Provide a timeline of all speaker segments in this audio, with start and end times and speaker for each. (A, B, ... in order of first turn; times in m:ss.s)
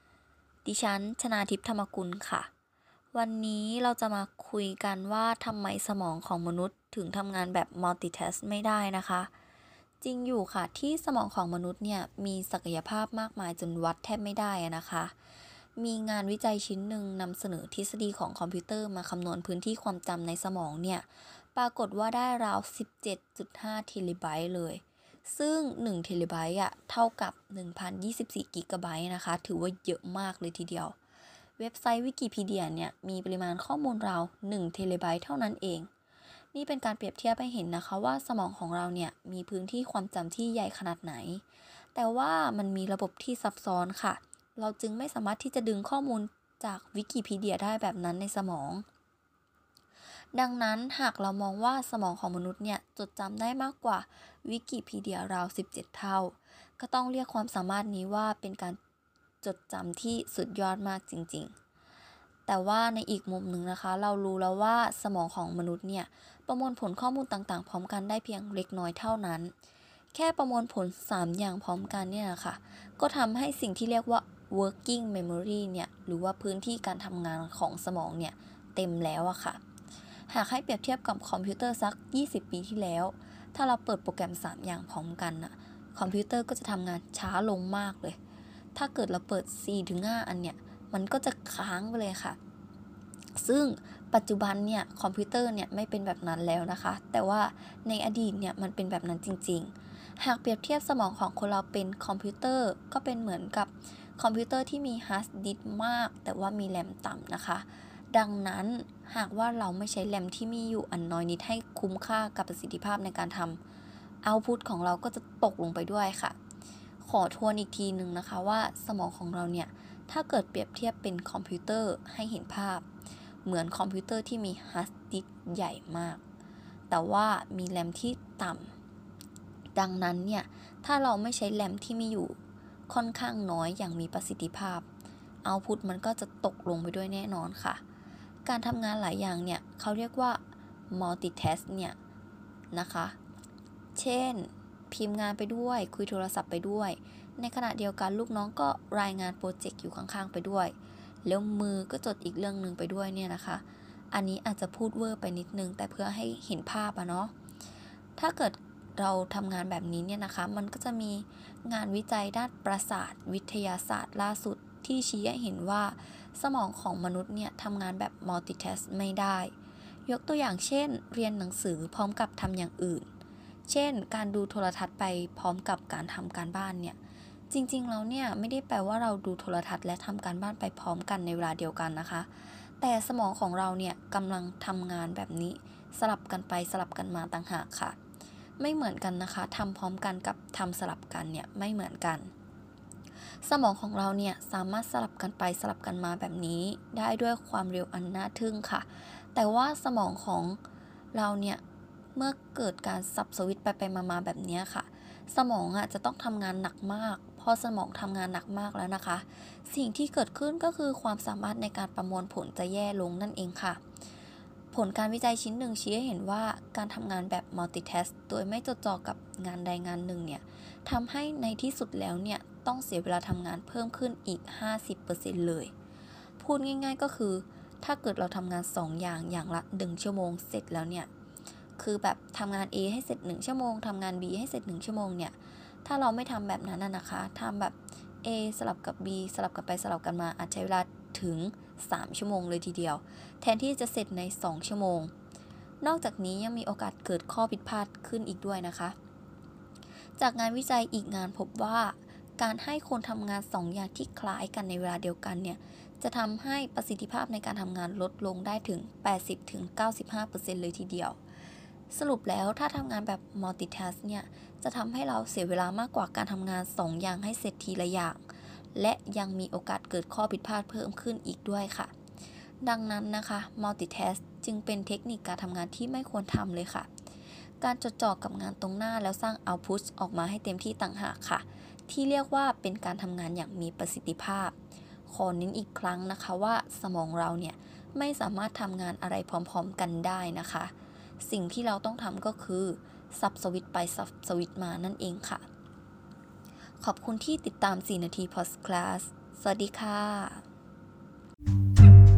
0:00.6-0:02.5 A
0:03.1-0:09.3 A
0:10.0-0:15.1 A
0:15.8-0:31.0 A
0:31.6-0:35.9 A
0:36.5-0:41.4 A
0:41.9-0:48.8 A
0:50.3-0:58.8 A
0:59.4-1:01.5 A
1:02.5-1:09.5 A
1:10.1-1:19.6 A
1:20.3-1:28.2 A
1:28.7-1:32.4 A
1:33.3-1:53.6 A
1:54.2-1:56.4 A
1:57.0-2:02.8 A
2:03.4-2:06.2 A
2:06.9-2:08.7 A
2:09.7-2:12.4 A
2:12.9-2:14.8 A
2:15.4-2:17.8 A
2:18.4-2:22.0 A
2:22.7-2:23.2 A
2:23.9-2:37.3 A
2:38.2-2:49.5 A
2:50.0-2:53.1 A
2:53.7-2:57.0 A
2:57.5-3:08.0 A
3:08.6-3:12.3 A
3:13.4-3:20.6 A
3:21.1-3:21.6 A
3:22.1-3:33.8 A
3:34.7-3:45.7 A
3:46.4-3:51.1 A
3:51.8-4:05.1 A
4:05.8-4:09.0 A
4:10.2-4:21.2 A
4:21.9-4:31.9 A
4:32.6-4:36.9 A
4:37.6-4:44.5 A
4:45.1-4:55.4 A
4:56.8-5:00.4 A